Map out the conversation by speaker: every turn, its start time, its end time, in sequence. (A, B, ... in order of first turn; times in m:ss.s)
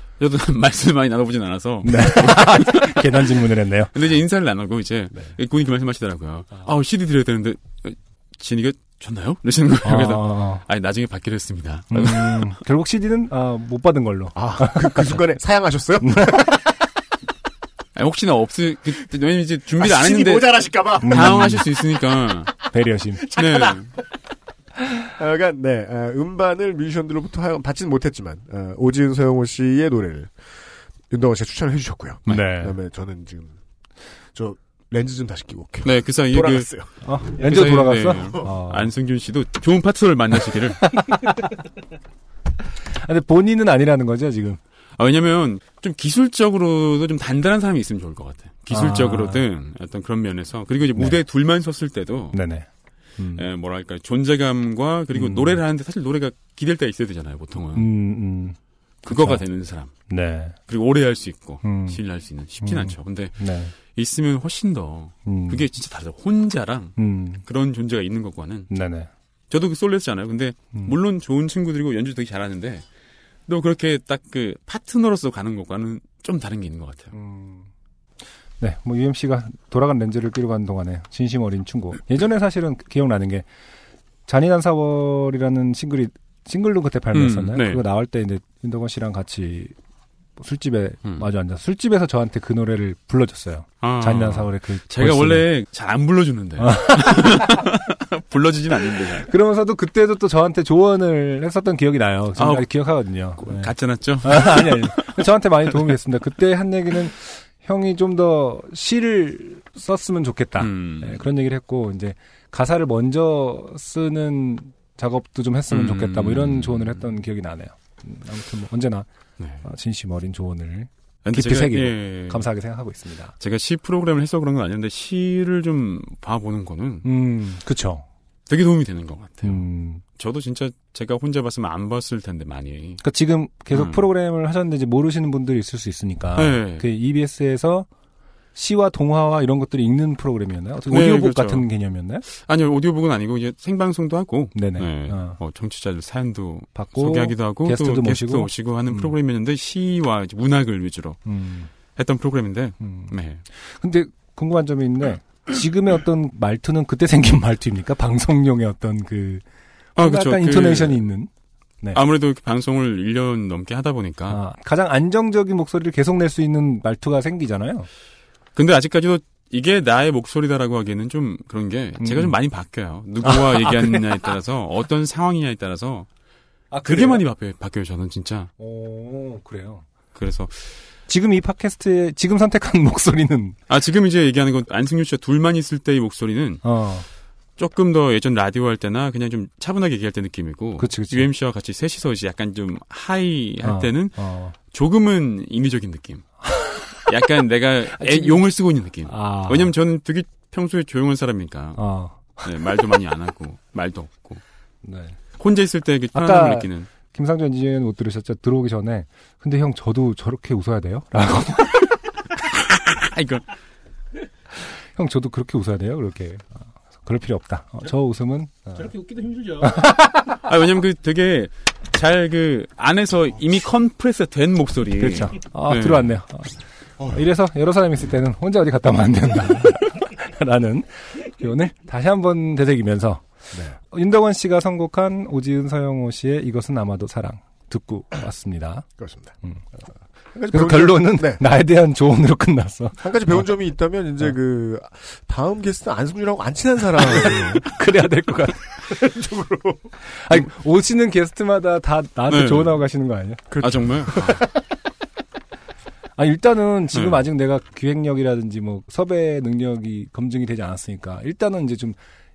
0:00.2-0:03.3 A
0:01.8-0:03.9 B
0:03.9-0:12.5 A
0:09.8-0:10.6 B
0:11.9-0:15.2 B
0:14.3-0:16.7 C
0:16.0-0:16.5 B
0:18.0-0:22.5 A
0:19.8-0:21.8 C
0:21.0-0:21.6 B
0:22.7-0:23.2 B
0:23.3-0:23.8 C
0:23.3-0:23.9 A
0:25.0-0:30.3 C
0:31.1-0:33.6 C
0:32.3-0:32.8 B
0:34.3-0:36.9 C
0:35.8-0:36.7 A
0:37.0-0:38.9 B
0:37.3-0:40.9 A
0:40.8-0:41.4 B
0:43.0-0:44.6 B
0:45.0-0:52.4 A
0:48.7-0:49.4 B
0:51.0-0:51.2 B
0:52.3-0:52.7 B
0:53.2-0:53.4 B
0:53.3-0:57.9 A
0:55.1-0:55.6 B
0:57.8-0:58.6 B
0:59.0-0:59.9 A
0:59.1-0:59.4 B
1:00.1-1:00.6 B
1:00.7-1:08.7 A
1:01.6-1:02.0 B
1:02.6-1:03.7 B
1:05.2-1:05.6 B
1:07.0-1:07.4 B
1:08.7-1:09.1 B
1:09.5-1:12.8 A
1:13.5-1:17.1 A
1:17.1-1:17.7 B
1:18.6-1:23.4 B
1:24.3-1:29.7 B
1:27.1-1:27.8 A
1:30.4-1:35.5 B
1:33.8-1:39.3 A
1:36.6-1:37.5 B
1:39.2-1:59.1 B
1:42.4-1:45.2 A
1:50.6-1:51.2 A
1:55.7-1:57.0 A
1:59.4-1:59.6 A
1:59.6-2:03.3 B
2:01.2-2:02.5 A
2:03.4-2:07.1 A
2:07.0-2:08.0 B
2:08.5-2:13.0 A
2:09.4-2:10.0 B
2:13.0-2:17.9 B
2:13.7-2:14.0 A
2:16.4-2:16.9 A
2:18.5-2:22.2 B
2:20.9-2:21.7 A
2:22.2-2:31.2 A
2:24.5-2:25.4 B
2:26.7-2:29.2 B
2:31.2-2:31.7 B
2:31.9-2:33.4 A
2:32.8-2:33.1 B
2:33.7-2:39.4 B
2:40.0-2:41.0 A
2:40.0-2:41.3 B
2:41.9-2:44.4 A
2:44.3-2:47.9 B
2:48.5-2:56.1 A
2:52.0-2:52.4 B
2:53.2-2:54.1 B
2:56.7-2:57.3 B
2:56.8-2:58.5 A
2:58.6-2:59.8 B
3:00.1-3:00.6 A
3:01.1-3:03.6 B
3:03.7-3:06.6 A
3:06.6-3:07.0 B
3:07.6-3:16.2 A
3:10.8-3:11.3 B
3:13.6-3:14.5 B
3:16.4-3:16.8 B
3:17.1-3:21.8 A
3:17.9-3:18.4 B
3:19.0-3:19.7 B
3:21.8-3:22.5 B
3:22.4-3:24.4 A
3:24.8-3:25.1 B
3:25.4-3:26.9 A
3:26.1-3:31.9 B
3:32.7-3:33.4 A
3:35.0-3:38.9 B
3:39.0-3:39.8 A
3:39.6-3:40.4 B
3:40.4-3:46.2 A
3:45.0-3:53.2 B
3:53.9-3:58.8 B
3:59.0-3:59.3 C
4:00.3-4:01.4 C
4:00.5-4:03.4 B
4:03.0-4:07.7 C
4:07.1-4:08.6 B
4:08.8-4:09.9 C
4:10.1-4:13.5 B
4:12.3-4:12.8 A
4:13.5-4:14.5 C
4:13.6-4:14.4 A
4:16.2-4:22.0 B
4:16.9-4:17.2 A